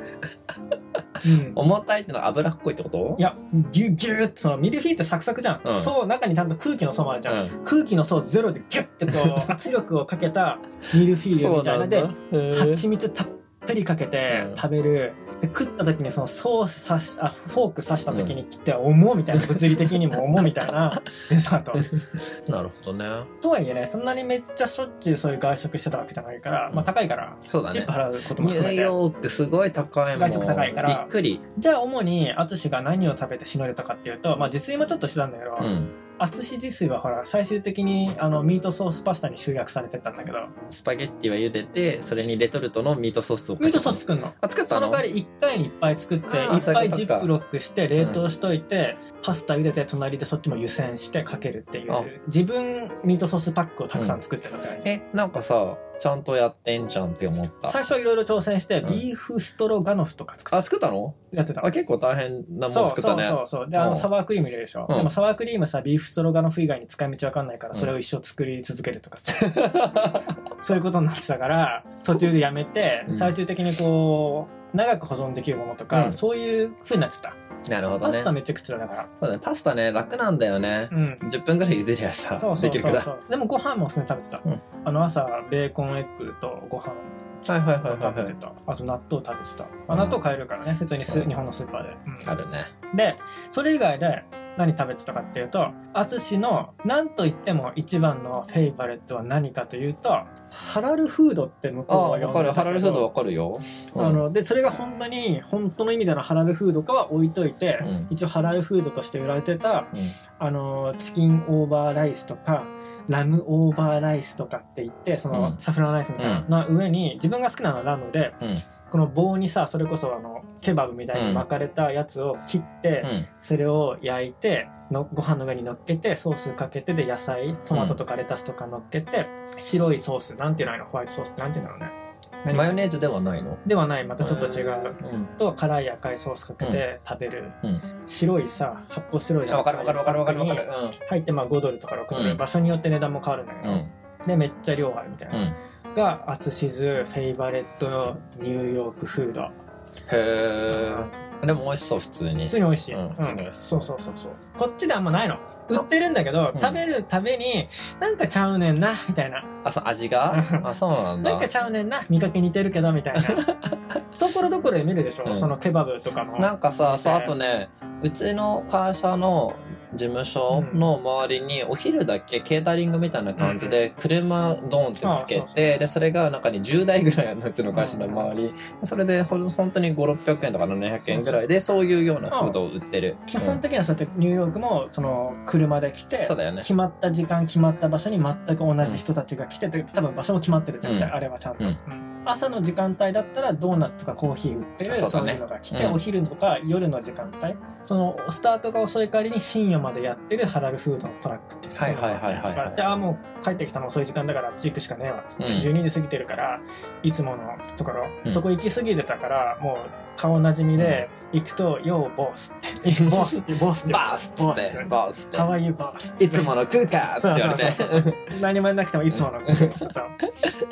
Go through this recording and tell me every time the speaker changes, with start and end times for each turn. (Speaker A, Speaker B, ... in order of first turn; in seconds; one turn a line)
Speaker A: 1.2-3.2
Speaker B: 1.2-1.6
Speaker B: 3.2-21.9
Speaker A: 5.6-5.9
Speaker A: 7.3-7.5
Speaker A: 9.1-9.5
Speaker A: 11.3-12.8
Speaker A: 14.3-14.6
Speaker A: 18.1-18.4
Speaker A: 19.3-21.0
Speaker A: 22.0-23.3
Speaker B: 23.4-28.9
Speaker A: 27.5-31.4
Speaker B: 30.1-40.5
Speaker A: 35.6-35.9
Speaker A: 40.7-45.0
Speaker B: 43.6-54.9
Speaker A: 46.3-47.3
Speaker A: 48.0-48.2
Speaker A: 54.8-57.8
Speaker B: 57.7-60.7
Speaker A: 60.5-64.1
Speaker B: 61.3-61.7
Speaker B: 62.7-70.0
Speaker A: 69.4-70.3
Speaker B: 70.6-77.4
Speaker A: 73.1-73.3
Speaker A: 75.9-76.2
Speaker A: 77.7-78.3
Speaker B: 78.0-79.1
Speaker A: 79.2-83.1
Speaker B: 80.9-81.2
Speaker B: 82.3-87.1
Speaker A: 87.5-88.3
Speaker B: 87.8-92.3
Speaker A: 89.9-90.2
Speaker A: 91.0-91.3
Speaker A: 92.2-92.7
Speaker B: 92.9-103.1
Speaker A: 101.9-104.2
Speaker B: 104.0-132.8
Speaker A: 107.8-108.1
Speaker A: 115.3-115.6
Speaker A: 116.2-116.5
Speaker A: 121.1-121.5
Speaker A: 123.0-123.3
Speaker A: 127.7-128.0
Speaker A: 132.5-133.6
Speaker B: 133.7-149.6
Speaker A: 134.2-135.3
Speaker A: 139.5-141.0
Speaker A: 142.1-142.4
Speaker A: 143.6-143.9
Speaker A: 150.1-153.9
Speaker B: 150.7-151.2
Speaker B: 152.5-159.5
Speaker A: 156.6-156.8
Speaker A: 159.6-161.5
Speaker B: 160.3-160.7
Speaker B: 161.2-163.5
Speaker A: 163.2-164.0
Speaker B: 164.1-167.3
Speaker A: 165.3-165.6
Speaker A: 166.4-183.6
Speaker B: 170.5-170.9
Speaker B: 173.4-173.8
Speaker B: 175.0-175.8
Speaker B: 177.7-178.3
Speaker B: 181.1-181.4
Speaker B: 182.3-182.6
Speaker B: 183.3-216.5
Speaker A: 186.2-186.7
Speaker A: 190.8-191.8
Speaker A: 194.8-196.0
Speaker A: 201.7-202.9
Speaker A: 205.4-205.7
Speaker A: 210.8-211.0
Speaker A: 212.9-215.5
Speaker A: 216.2-218.3
Speaker B: 217.2-220.2
Speaker A: 219.1-219.9